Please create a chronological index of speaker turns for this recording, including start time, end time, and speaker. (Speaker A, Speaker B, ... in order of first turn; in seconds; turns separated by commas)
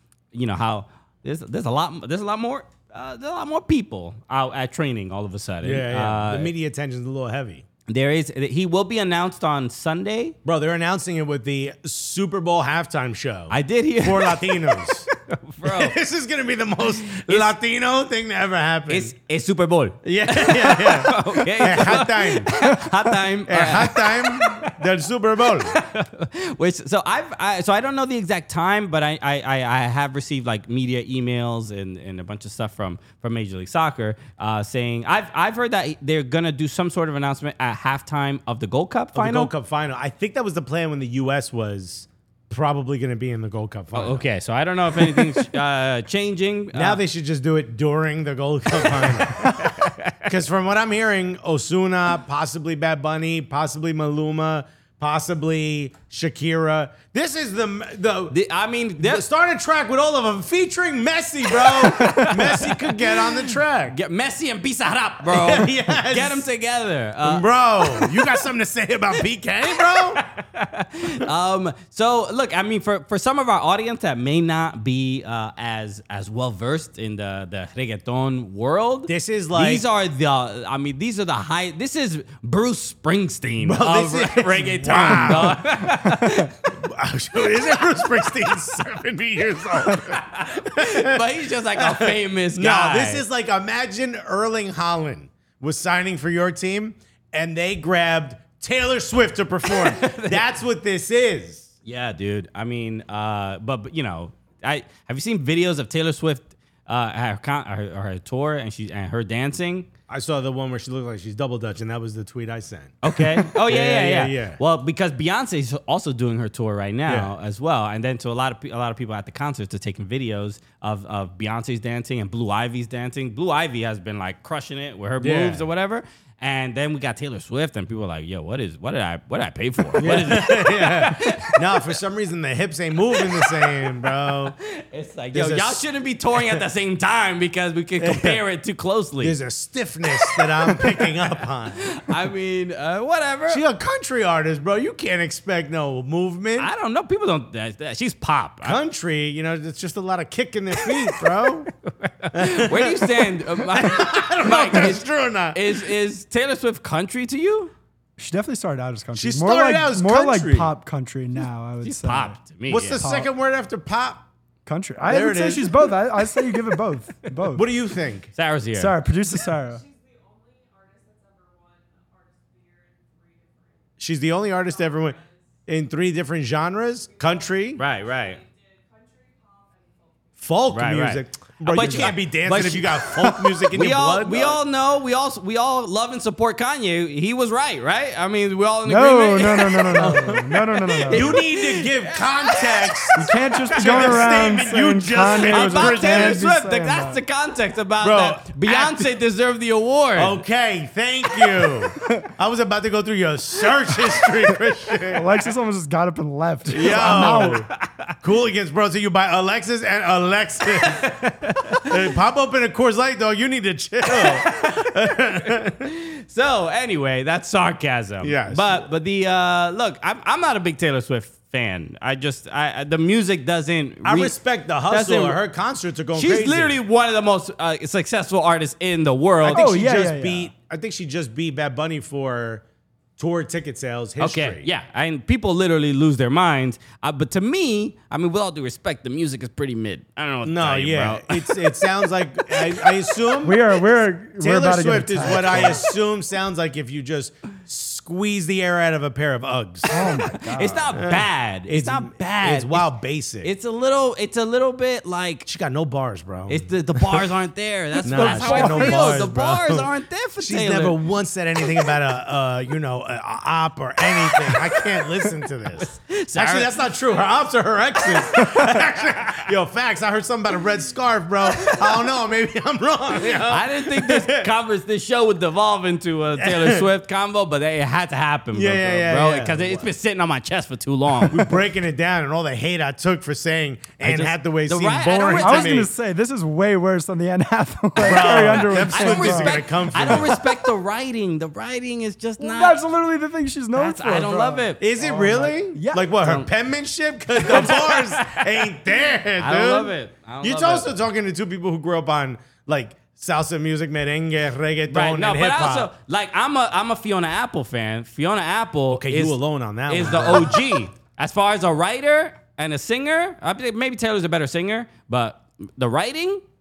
Speaker A: 0.3-6.5, Speaker B: 5.6-7.7, Speaker A: 7.9-10.4, Speaker B: 10.4-15.1, Speaker A: 13.5-15.9, Speaker B: 15.6-19.1, Speaker A: 17.0-17.5, Speaker A: 18.9-24.8, Speaker B: 20.0-22.6, Speaker B: 23.5-25.8, Speaker A: 25.7-39.5, Speaker B: 39.1-44.2, Speaker A: 43.9-47.0, Speaker B: 45.0-45.5, Speaker B: 46.7-58.4, Speaker A: 49.0-50.2, Speaker A: 58.3-59.2, Speaker B: 59.0-64.0, Speaker A: 61.6-68.3, Speaker B: 65.2-66.5, Speaker B: 67.2-70.2, Speaker A: 70.2-86.7, Speaker B: 79.1-79.8, Speaker B: 83.6-85.9, Speaker B: 86.7-91.2, Speaker A: 90.1-93.2, Speaker B: 91.7-101.7, Speaker A: 99.7-100.4, Speaker A: 101.9-109.9, Speaker B: 110.1-114.6, Speaker A: 113.0-131.8, Speaker B: 117.1-117.3, Speaker B: 125.2-125.7, Speaker B: 129.9-134.6, Speaker A: 133.1-133.9, Speaker A: 134.7-139.4, Speaker B: 135.3-136.6, Speaker B: 138.0-138.4, Speaker B: 139.2-142.0, Speaker A: 140.2-141.1, Speaker A: 141.8-143.6, Speaker B: 143.5-146.7, Speaker A: 146.6-148.8, Speaker B: 148.6-151.7, Speaker A: 151.9-157.7, Speaker B: 152.3-155.8, Speaker C: 158.2-162.4, Speaker B: 159.1-160.7, Speaker A: 161.8-163.0, Speaker B: 162.7-164.3, Speaker C: 163.0-163.3, Speaker C: 164.7-167.7, Speaker B: 165.1-165.9, Speaker B: 167.5-168.3, Speaker A: 168.4-169.0, Speaker C: 168.8-169.8, Speaker B: 174.0-177.8, Speaker A: 177.8-178.4, Speaker B: 180.4-184.6, Speaker A: 180.7-190.2, Speaker C: 188.8-191.4, Speaker B: 189.9-196.5, Speaker A: 191.0-193.1, Speaker C: 193.2-197.2, Speaker A: 193.8-194.2, Speaker A: 195.4-200.4, Speaker B: 198.0-199.1, Speaker B: 200.2-205.4, Speaker C: 205.1-207.6, Speaker B: 206.7-207.7, Speaker A: 206.7-208.1, Speaker B: 208.2-215.9, Speaker A: 210.8-211.8, Speaker A: 214.1-214.9, Speaker A: 215.8-224.3, Speaker B: 218.2-218.9, Speaker B: 224.0-226.8, Speaker A: 224.9-225.4, Speaker A: 226.2-229.7, Speaker B: 229.4-232.6, Speaker C: 229.5-230.5, Speaker B: 233.2-234.7, Speaker A: 234.2-241.7, Speaker B: 240.4-243.7, Speaker A: 242.6-242.9, Speaker C: 243.4-245.8, Speaker B: 244.4-250.0, Speaker C: 249.9-250.9, Speaker A: 250.0-255.5, Speaker B: 250.9-253.5, Speaker B: 255.5-257.3, Speaker A: 256.5-261.0, Speaker B: 258.0-274.5, Speaker C: 258.0-259.3, Speaker A: 264.4-264.8, Speaker A: 265.8-266.7, Speaker A: 273.3-281.5, Speaker B: 276.4-276.8, Speaker B: 278.5-279.9, Speaker B: 281.2-285.9, Speaker A: 284.0-285.8, Speaker C: 285.4-289.6, Speaker B: 288.0-290.4, Speaker A: 288.1-292.8, Speaker C: 292.4-296.1, Speaker A: 293.8-294.9, Speaker B: 294.8-305.9, Speaker A: 297.4-298.6, Speaker A: 299.4-300.9, Speaker A: 304.9-316.4, Speaker B: 308.9-310.8